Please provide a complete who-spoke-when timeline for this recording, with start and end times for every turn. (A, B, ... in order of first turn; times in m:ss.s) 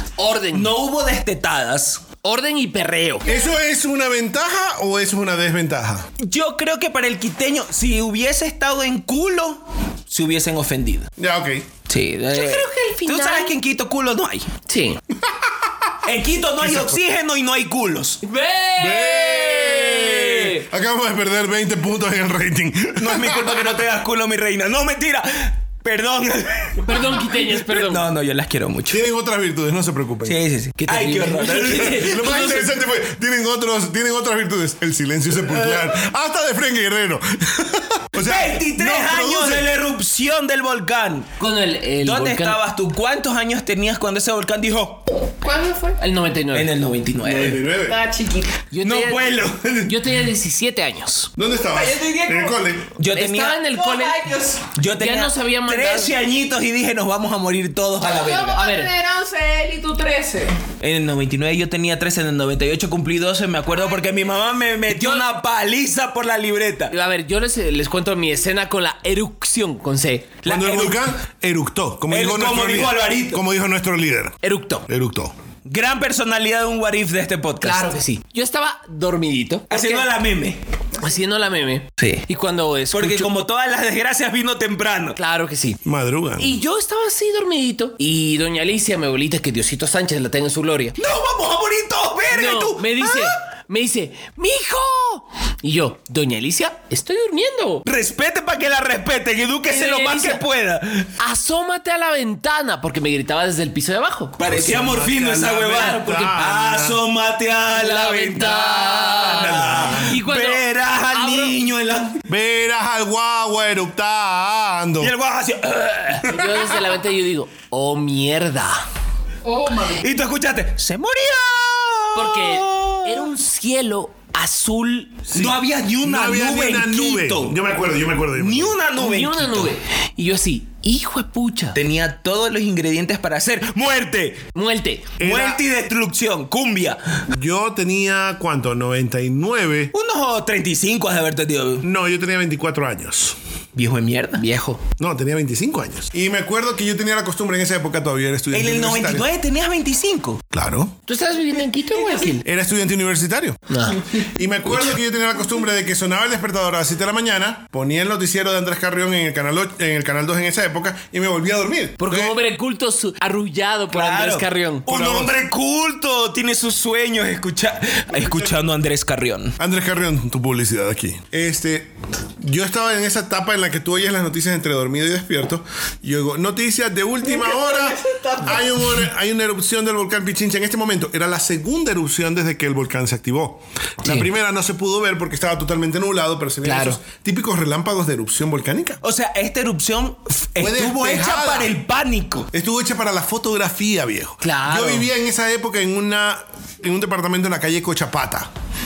0:00.2-0:00.7 A
0:00.5-0:02.0 B
0:02.2-0:03.3 A
0:03.2-0:06.1 C
0:06.2-0:11.1 B
0:11.2-0:11.7 C
0:11.9-0:14.5 B
0:12.3-0:13.5 A
0:14.7-0:15.0 A
0:15.2-0:15.9 C
0:16.0-0:18.2 B
0:16.6-0:17.0 C
0:18.2-0:20.6 A
0:18.8-0:23.8 C
0:23.0-0:29.0 B
0:26.8-0:28.0 A
0:28.9-0:30.4 C
0:30.2-0:32.5 B
0:30.8-0:32.7 A
0:31.6-0:39.7 C
0:38.2-0:41.3 B
0:41.4-0:42.6 A
0:42.0-0:45.0 B
0:45.4-0:46.0 D
0:46.0-0:46.7 A
0:46.5-0:47.6 B
0:47.2-0:48.0 C
0:47.8-0:48.6 D
0:48.7-0:51.3 A
0:48.8-0:50.0 B
0:51.4-0:52.9 C
0:51.6-0:52.5 D
0:53.0-0:53.7 B
0:53.1-0:54.2 A
0:53.7-0:54.7 D
0:54.7-0:58.6 B
0:55.0-0:56.1 A
0:58.1-1:00.5 D
0:58.5-0:58.9 A
1:00.8-1:06.9 B
1:04.9-1:05.2 A
1:06.9-1:10.4 A
1:10.4-1:11.1 B
1:10.4-1:15.3 C
1:12.1-1:13.4 B
1:14.4-1:14.8 A
1:15.6-1:17.9 B
1:17.6-1:20.1 A
1:19.7-1:20.6 B
1:21.0-1:23.3 A
1:22.0-1:22.2 B
1:22.9-1:25.2 B
1:25.2-1:25.8 A
1:25.8-1:26.6 C
1:26.4-1:31.0 A
1:31.0-1:33.3 B
1:32.3-1:37.8 A
1:37.8-1:41.1 B
1:39.7-1:40.4 A
1:41.2-1:44.4 A
1:44.4-1:52.2 B
1:44.4-1:47.0 C
1:47.7-1:51.6 A
1:49.3-1:50.2 C
1:52.3-1:55.1 C
1:55.0-1:56.7 B
1:56.2-1:58.8 A
1:59.4-2:00.0 D
1:59.9-2:03.3 B
2:02.1-2:05.2 A
2:05.3-2:08.8 C
2:05.3-2:07.6 B
2:08.4-2:09.7 B
2:09.0-2:11.8 A
2:11.7-2:14.4 B
2:14.5-2:15.1 A
2:15.2-2:15.6 C
2:15.2-2:17.2 B
2:17.3-2:19.9 C
2:19.9-2:21.8 B
2:21.8-2:23.4 C
2:23.7-2:24.4 B
2:24.4-2:24.8 A
2:25.0-2:29.3 C
2:28.5-2:30.4 B
2:30.5-2:31.0 C
2:31.1-2:32.4 A
2:32.3-2:42.4 C
2:33.7-2:34.0 A
2:42.0-2:44.9 A
2:43.9-2:49.6 B
2:44.9-2:45.3 C
2:48.1-2:48.5 C
2:49.6-3:09.0 C
3:04.0-3:04.3 A
3:06.6-3:07.0 A
3:09.0-3:12.5 B
3:10.6-3:11.7 C
3:12.5-3:18.5 C
3:14.4-3:15.1 A